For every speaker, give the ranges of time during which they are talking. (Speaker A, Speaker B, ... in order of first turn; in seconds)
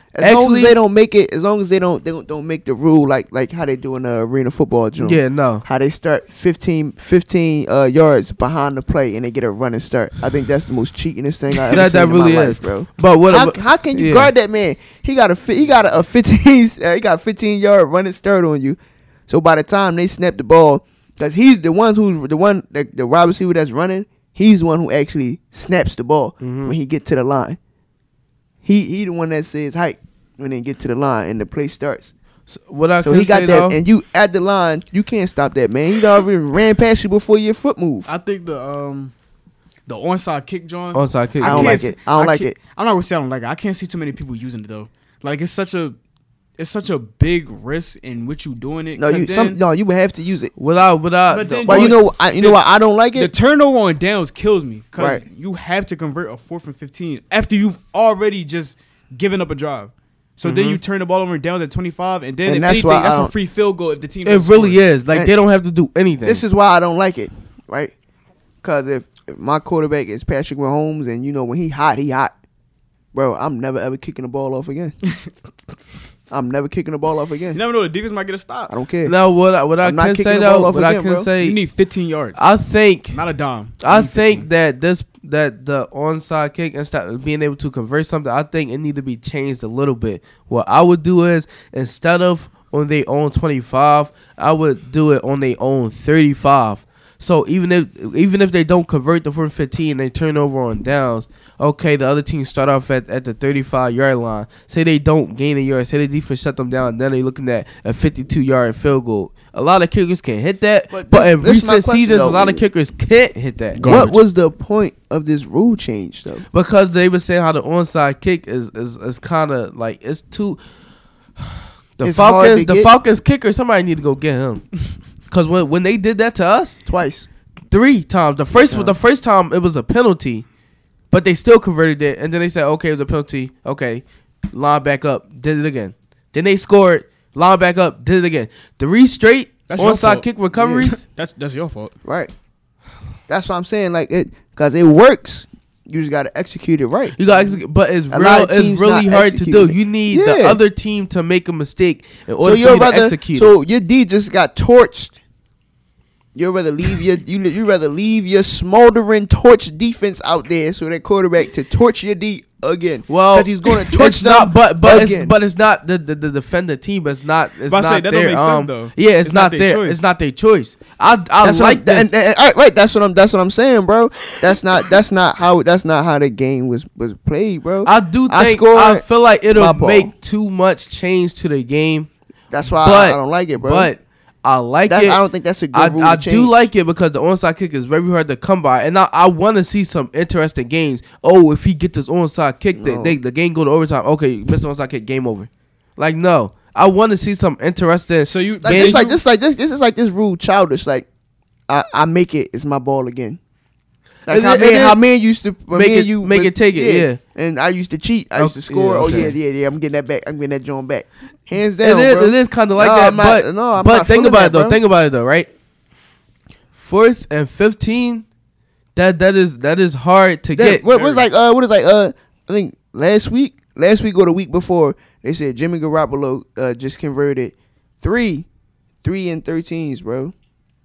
Speaker A: 0.1-27.6, 28.6-32.1, 33.0-38.1, 41.4-42.6, 49.0-50.5, 51.7-53.3, 62.5-63.3, 66.2-67.9, 68.6-72.3, 73.1-75.0, 76.3-77.6, 78.7-79.1, 79.8-81.3, 110.9-112.6, 113.8-116.5, 122.0-122.9, 126.9-127.3, 128.5-129.0, 140.5-140.8, 142.1-142.3, 143.3-147.5, 148.1-150.6, 152.4-155.2, 156.3-165.3, 171.4-180.1, 182.5-183.9, 184.9-186.5, 192.8-193.2, 198.6-201.1, 201.7-203.4, 204.3-214.8, 220.6-228.5, 229.0-230.3
Speaker B: 0.2-0.8, 5.0-5.7, 11.7-14.3, 26.4-26.7, 32.5-33.8, 40.9-41.9, 50.6-52.0, 60.4-60.8, 64.2-66.4, 79.0-81.6, 82.3-83.2, 83.8-114.2, 116.5-120.6, 122.0-124.7, 125.3-126.8, 127.7-130.4, 131.1-141.0, 147.2-153.5, 163.1-172.1, 177.8-182.1, 182.8-185.2, 185.7-199.0, 204.3-205.0, 205.7-207.2, 208.4-209.3, 211.8-215.5, 216.8-218.2, 219.0-220.8
Speaker C: 38.1-39.1, 39.9-46.0, 46.6-49.6, 51.3-52.6, 53.1-64.8, 77.5-78.7, 81.4-82.4, 83.1-84.5, 113.8-114.2, 139.7-141.9, 167.7-170.0, 198.2-199.2, 220.8-221.3